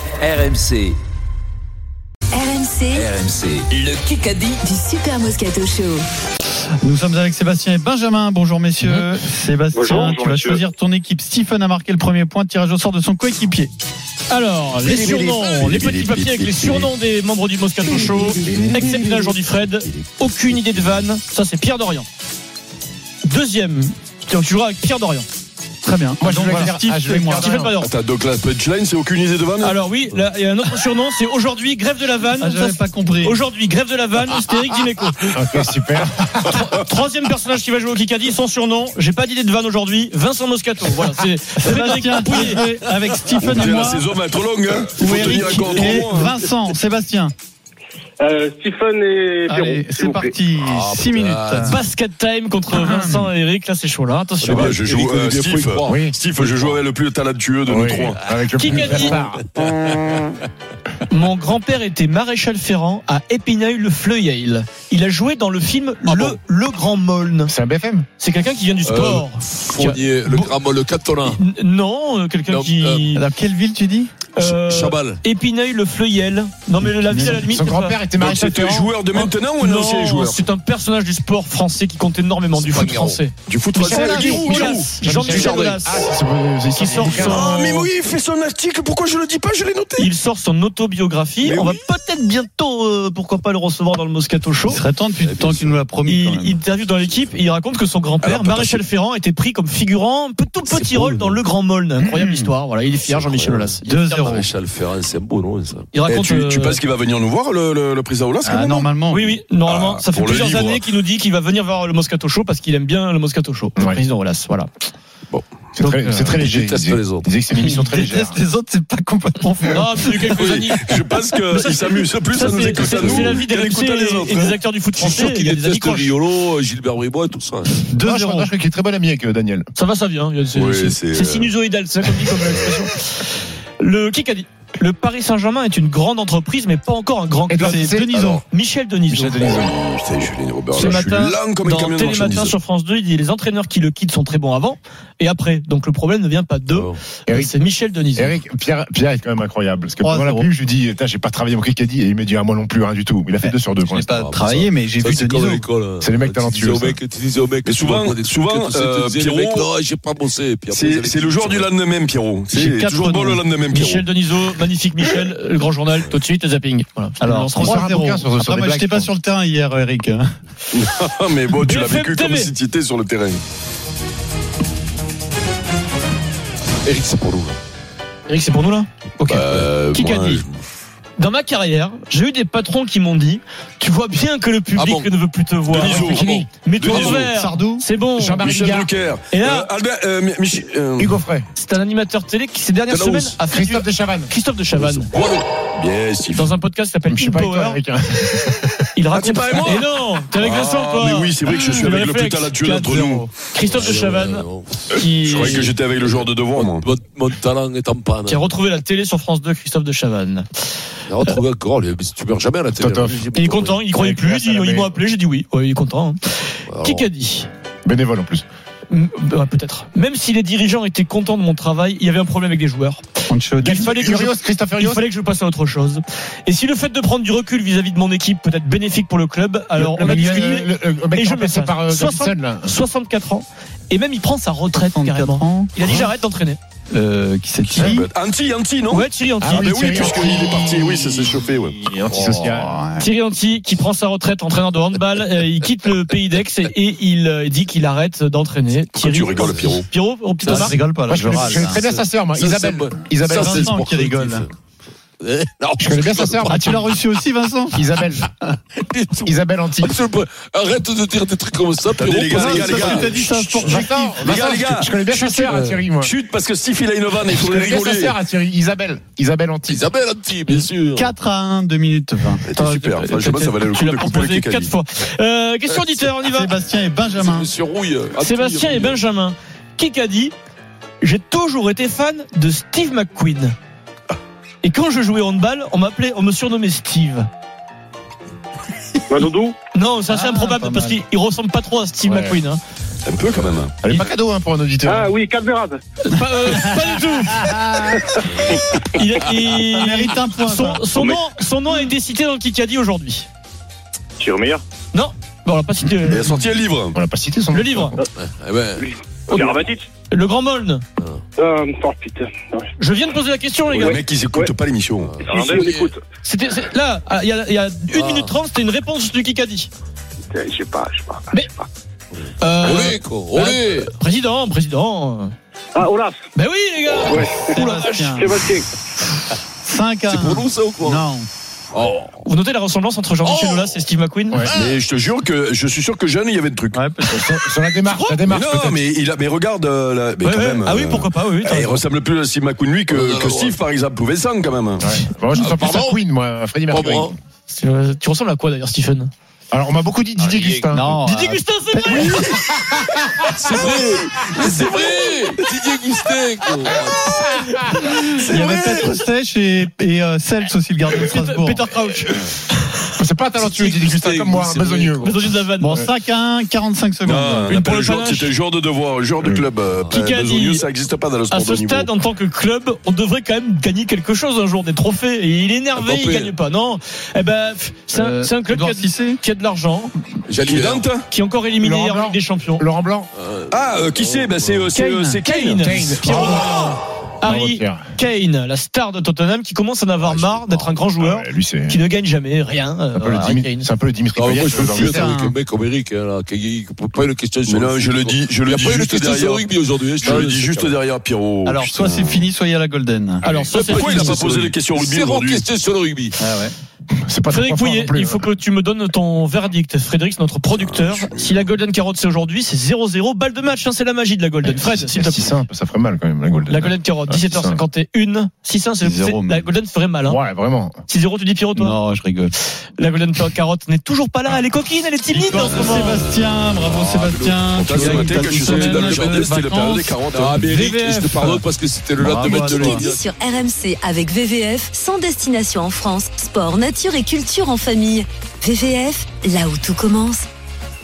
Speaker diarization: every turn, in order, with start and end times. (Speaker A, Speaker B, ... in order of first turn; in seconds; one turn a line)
Speaker A: 0.2-0.9
Speaker B: 2.3-3.1
Speaker A: 2.9-4.4
Speaker B: 4.6-6.0
Speaker C: 6.8-13.7
Speaker D: 9.7-10.6
Speaker E: 14.3-22.1
Speaker E: 23.3-25.3
Speaker C: 25.8-27.5
Speaker F: 26.2-27.7
Speaker E: 27.1-27.9
Speaker G: 27.8-29.8
Speaker E: 29.6-35.3
Speaker C: 32.4-33.4
Speaker F: 35.3-36.5
Speaker E: 36.4-42.6
Speaker C: 41.6-44.1
Speaker G: 43.4-46.3
Speaker C: 45.0-47.3
Speaker E: 45.3-46.2
Speaker D: 48.2-50.4
Speaker C: 49.5-51.8
Speaker H: 50.6-51.8
Speaker E: 51.6-54.8
Speaker C: 52.7-53.3
Speaker H: 54.4-56.8
Speaker G: 54.5-58.2
Speaker F: 55.9-56.1
Speaker F: 57.7-59.4
Speaker E: 58.5-59.3
Speaker H: 58.9-60.1
Speaker E: 61.1-67.5
Speaker H: 66.0-66.3
Speaker F: 67.5-68.0
Speaker E: 68.2-70.5
Speaker H: 68.8-71.4
Speaker E: 71.2-73.2
Speaker H: 72.5-73.1
Speaker C: 73.1-74.1
Speaker E: 74.4-78.2
Speaker H: 74.4-75.2
Speaker C: 76.8-77.5
Speaker F: 77.5-78.9
Speaker G: 78.2-80.5
Speaker E: 78.8-86.1
Speaker H: 82.5-83.2
Speaker G: 83.5-85.6
Speaker F: 83.8-87.6
Speaker H: 85.2-85.8
Speaker E: 86.7-87.9
Speaker G: 87.3-90.1
Speaker E: 90.0-94.8
Speaker G: 91.4-91.8
Speaker C: 94.7-96.6
Speaker H: 95.2-95.9
Speaker E: 96.0-104.5
Speaker G: 98.2-98.8
Speaker H: 100.7-101.4
Speaker C: 102.0-102.5
Speaker H: 102.9-105.9
Speaker C: 103.8-104.5
Speaker E: 105.9-106.8
Speaker G: 106.1-108.9
Speaker C: 108.4-109.3
Speaker E: 109.1-114.7
Speaker G: 109.6-110.9
Speaker F: 113.8-114.0
Speaker F: 115.8-118.4
Speaker E: 115.8-116.1
Speaker H: 116.3-117.3
Speaker C: 117.5-120.2
Speaker E: 119.7-126.2
Speaker G: 120.3-124.5
Speaker H: 124.9-127.9
Speaker C: 127.9-128.5
Speaker F: 128.0-129.7
Speaker E: 129.8-133.0
Speaker G: 130.5-131.5
Speaker E: 133.8-139.6
Speaker F: 137.5-138.4
Speaker C: 137.6-137.9
Speaker F: 139.1-139.7
Speaker G: 139.4-142.6
Speaker E: 140.7-148.4
Speaker H: 146.7-147.1
Speaker F: 147.3-147.6
Speaker F: 148.1-154.1
Speaker C: 150.0-150.5
Speaker C: 153.4-155.6
Speaker H: 154.0-161.7
Speaker F: 156.0-157.0
Speaker G: 157.6-159.7
Speaker G: 160.7-164.1
Speaker E: 162.5-168.2
Speaker C: 167.2-170.3
Speaker F: 167.6-169.1
Speaker G: 170.7-173.4
Speaker E: 171.6-172.5
Speaker H: 176.8-177.6
Speaker E: 178.3-180.4
Speaker H: 179.2-180.5
Speaker G: 179.3-180.4
Speaker E: 181.2-188.4
Speaker H: 184.8-185.1
Speaker G: 185.7-187.2
Speaker F: 185.7-186.5
Speaker C: 186.8-187.8
Speaker F: 188.2-188.9
Speaker G: 188.4-191.2
Speaker E: 189.3-189.7
Speaker F: 191.0-191.5
Speaker E: 191.6-195.1
Speaker H: 192.9-193.5
Speaker F: 193.5-194.3
Speaker H: 194.7-195.5
Speaker G: 195.7-196.5
Speaker E: 196.3-197.8
Speaker F: 197.1-198.7
Speaker E: 198.9-205.8
Speaker G: 199.1-203.2
Speaker H: 203.7-204.9
Speaker G: 204.9-206.9
Speaker H: 206.5-208.5
Speaker E: 208.2-210.5
Speaker H: 211.1-214.0
Speaker F: 212.8-213.3
Speaker E: 213.3-217.5
Speaker F: 214.0-214.9
Speaker H: 216.7-217.1
Speaker F: 217.8-218.4
Speaker E: 218.9-223.1
Speaker C: 223.3-223.9
Speaker F: 223.6-225.0
Speaker E: 223.7-236.6
Speaker F: 229.8-232.7
Speaker C: 230.0-230.5
Speaker C: 234.8-235.7
Speaker C: 236.9-238.1
Speaker G: 237.7-239.1
Speaker E: 238.9-239.7
Speaker F: 239.4-241.2
Speaker G: 239.6-242.0
Speaker F: 242.0-242.7
Speaker C: 242.4-243.1
Speaker E: 243.0-250.8
Speaker G: 249.0-249.9
Speaker C: 250.4-251.8
Speaker F: 251.1-253.8
Speaker H: 251.8-254.5
Speaker C: 253.2-254.5
Speaker H: 255.2-256.9
Speaker F: 255.8-256.9
Speaker C: 256.5-258.0
Speaker F: 257.7-258.2
Speaker H: 258.8-263.1
Speaker F: 259.3-260.0
Speaker G: 262.0-268.2
Speaker F: 262.3-262.8
Speaker C: 262.5-264.2
Speaker F: 263.6-266.1
Speaker H: 265.4-265.8
Speaker F: 267.3-269.8
Speaker H: 269.7-271.1
Speaker C: 270.9-272.4
Speaker G: 272.5-274.7
Speaker E: 272.5-276.5
Speaker H: 275.7-276.1
Speaker C: 276.3-277.5
Speaker H: 277.1-279.0
Speaker E: 278.1-280.3
Speaker E: 281.0-283.5
Speaker E: 284.6-287.3
Speaker D: 289.1-289.5
Speaker E: 289.7-292.6
Speaker C: 290.1-291.0
Speaker F: 292.1-292.4
Speaker G: 293.1-293.7
Speaker F: 293.8-295.1
Speaker D: 294.8-295.8
Speaker E: 296.0-297.5
Speaker E: 298.9-303.3
Speaker C: 299.7-300.9
Speaker D: 304.2-304.6
Speaker E: 304.9-306.3
Speaker G: 306.1-307.0
Speaker F: 306.9-308.0
Speaker E: 307.5-308.0
Speaker H: 308.1-308.9
Speaker E: 309.3-309.5
Speaker D: 309.3-309.8
Speaker E: 310.1-310.8
Speaker D: 311.4-312.7
Speaker E: 312.8-314.0
Speaker G: 313.7-315.1
Speaker H: 315.0-315.9
Speaker D: 315.2-316.0
Speaker E: 316.2-319.7
Speaker H: 317.9-318.4
Speaker D: 320.3-321.2
Speaker E: 322.4-325.3
Speaker H: 322.6-323.9
Speaker D: 325.7-326.2
Speaker E: 326.4-328.2
Speaker D: 327.1-327.6
Speaker C: 327.5-328.4
Speaker D: 328.1-328.6
Speaker C: 329.6-331.3
Speaker H: 330.1-331.1
Speaker H: 331.7-332.2
Speaker E: 332.2-334.6
Speaker H: 333.2-333.8
Speaker G: 334.5-336.8
Speaker C: 336.7-337.2
Speaker F: 337.1-338.9
Speaker E: 337.8-338.2
Speaker G: 338.2-344.9
Speaker E: 340.2-341.8
Speaker H: 342.9-343.5
Speaker F: 344.8-347.1
Speaker H: 345.3-346.0
Speaker H: 346.7-347.1
Speaker E: 347.5-349.1
Speaker F: 349.5-350.9
Speaker H: 350.2-350.8
Speaker C: 350.7-352.1
Speaker E: 350.9-352.6
Speaker F: 351.9-353.0
Speaker H: 353.4-357.2
Speaker E: 354.2-354.9
Speaker E: 357.2-359.0
Speaker C: 357.7-361.7
Speaker E: 360.9-362.7
Speaker F: 363.0-365.3
Speaker H: 363.4-365.1
Speaker E: 365.0-365.9
Speaker C: 365.6-367.6
Speaker G: 367.0-371.9
Speaker E: 367.4-368.3
Speaker E: 369.9-370.6
Speaker E: 371.3-380.0
Speaker H: 375.8-376.3
Speaker C: 377.9-379.2
Speaker H: 380.3-380.9
Speaker G: 380.4-381.1
Speaker E: 380.9-382.6
Speaker F: 381.6-383.1
Speaker H: 383.1-384.5
Speaker G: 383.5-386.3
Speaker E: 384.6-393.7
Speaker C: 384.9-385.3
Speaker F: 385.6-386.7
Speaker F: 387.2-387.8
Speaker F: 390.0-391.8
Speaker F: 392.9-395.2
Speaker H: 394.1-400.8
Speaker C: 394.5-395.4
Speaker G: 397.4-399.5
Speaker G: 400.0-402.2
Speaker C: 401.4-403.2
Speaker E: 403.2-404.3
Speaker H: 403.2-406.2
Speaker G: 403.5-405.4
Speaker C: 406.2-406.5
Speaker F: 407.1-408.2
Speaker E: 407.3-415.4
Speaker G: 410.5-411.4
Speaker F: 414.7-417.6
Speaker E: 416.5-420.2
Speaker C: 418.8-419.4
Speaker F: 420.1-420.8
Speaker E: 420.9-421.8
Speaker C: 421.5-422.3
Speaker E: 422.8-426.0
Speaker C: 425.1-431.4
Speaker H: 425.5-433.0
Speaker G: 427.6-430.4
Speaker C: 432.0-432.8
Speaker B: 432.4-440.2